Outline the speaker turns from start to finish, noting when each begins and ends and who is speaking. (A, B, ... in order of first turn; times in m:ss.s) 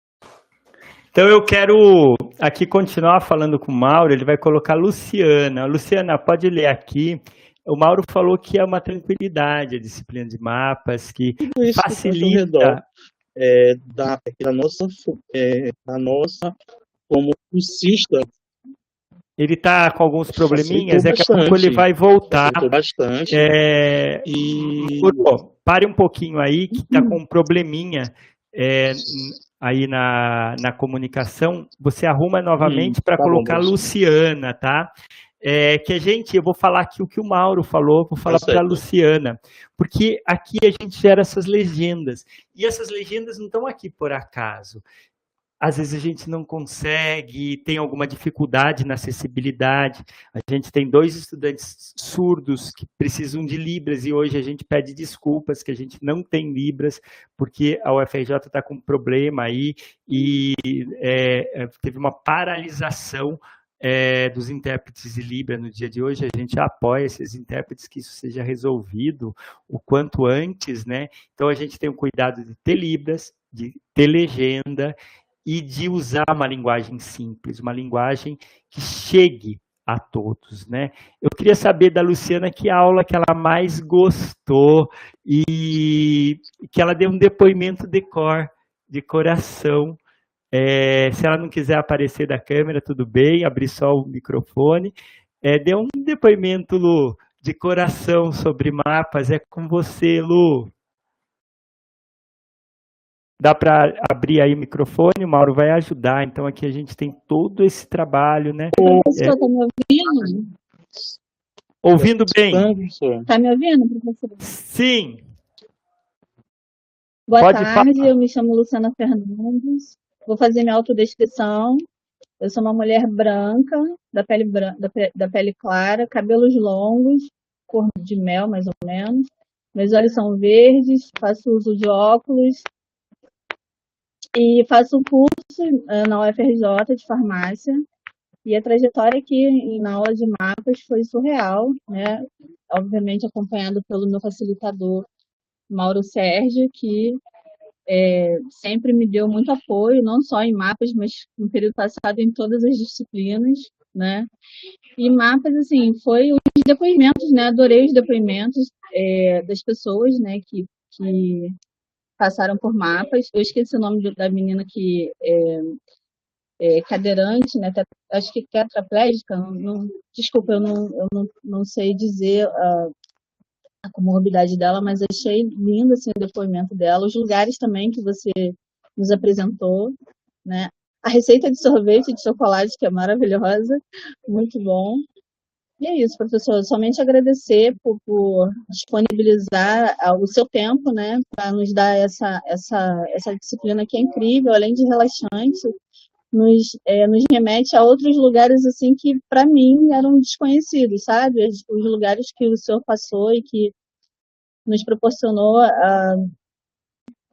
0:01.1-0:12.8 A
0:11.4-0:12.8 B
0:13.4-0:16.5 B
0:17.1-0:18.3 B
0:19.4-0:22.7 A
0:20.5-0:23.5 B
0:23.3-0:44.8 A
0:24.2-0:25.4 B
0:32.6-0:33.8 B
0:38.2-0:38.8 B
0:45.6-1:30.0 A
1:30.5-1:40.7 A
1:43.4-1:49.4 A
1:48.7-1:50.5 C
1:48.8-1:49.1 B
1:51.8-1:52.7 A
1:51.9-1:53.3 B
1:53.3-1:54.4 C
1:54.4-1:55.2 A
1:57.3-2:01.8 C
1:57.4-1:58.1 A
2:02.4-2:12.6 C
2:14.3-2:17.8 C
2:18.4-2:25.1 C
2:25.7-2:27.2 C
2:27.9-2:34.3 C
2:35.0-2:41.6 C
2:42.2-2:45.8 C
2:46.6-2:52.9 C
2:53.8-3:05.0 C
3:05.8-3:15.7 C
3:16.3-3:23.7 C
3:24.6-3:26.3 C